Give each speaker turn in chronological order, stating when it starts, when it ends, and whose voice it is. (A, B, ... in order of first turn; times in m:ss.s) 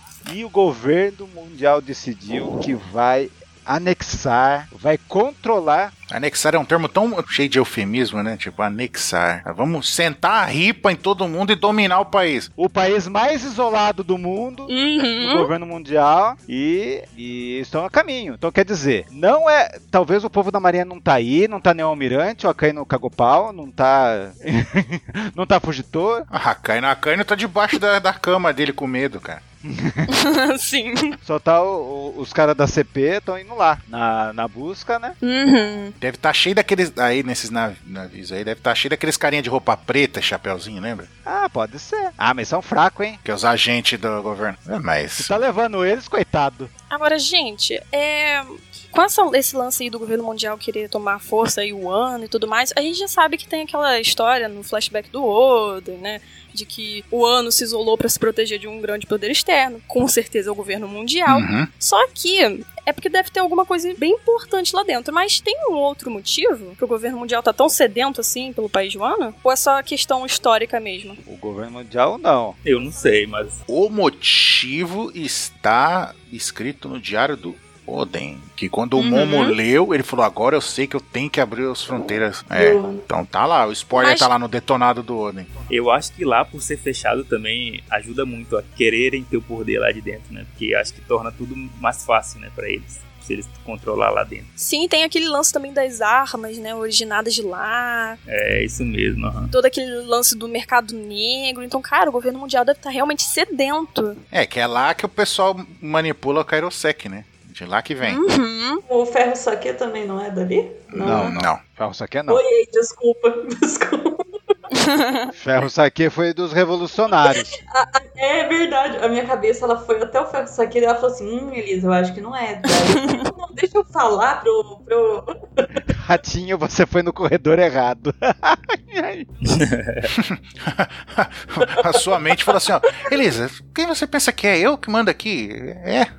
0:00.2-0:05.9 A
0:06.1-0:12.5 B
0:12.6-0:26.3 A
0:14.7-0:15.5 C
0:26.3-0:29.4 B
0:29.6-0:30.1 A
0:30.1-0:31.2 C
0:31.2-0:35.2 A
0:35.2-0:36.0 C
0:36.0-0:41.1 B
0:41.2-0:43.2 A
0:43.2-0:45.3 B
0:45.2-0:46.7 A
0:46.9-1:11.2 C
1:01.3-1:01.7 B
1:11.2-1:12.6 A
1:12.6-1:13.6 D
1:13.7-1:25.5 B
1:19.0-1:19.6 C
1:22.5-1:23.1 E
1:23.9-1:24.3 C
1:25.7-1:34.5 D
1:34.6-1:38.2 C
1:38.3-1:39.5 D
1:39.5-1:44.2 C
1:44.3-1:48.2 B
1:48.0-1:48.8 C
1:48.9-1:51.4 E
1:50.9-1:51.6 B
1:51.0-1:52.4 A
1:52.3-1:54.2 E
1:54.7-1:55.3 C
1:55.4-1:57.5 A
1:57.3-2:05.7 E
2:03.0-2:03.2 C
2:05.9-2:09.3 A
2:09.4-2:10.1 D
2:10.1-2:16.1 B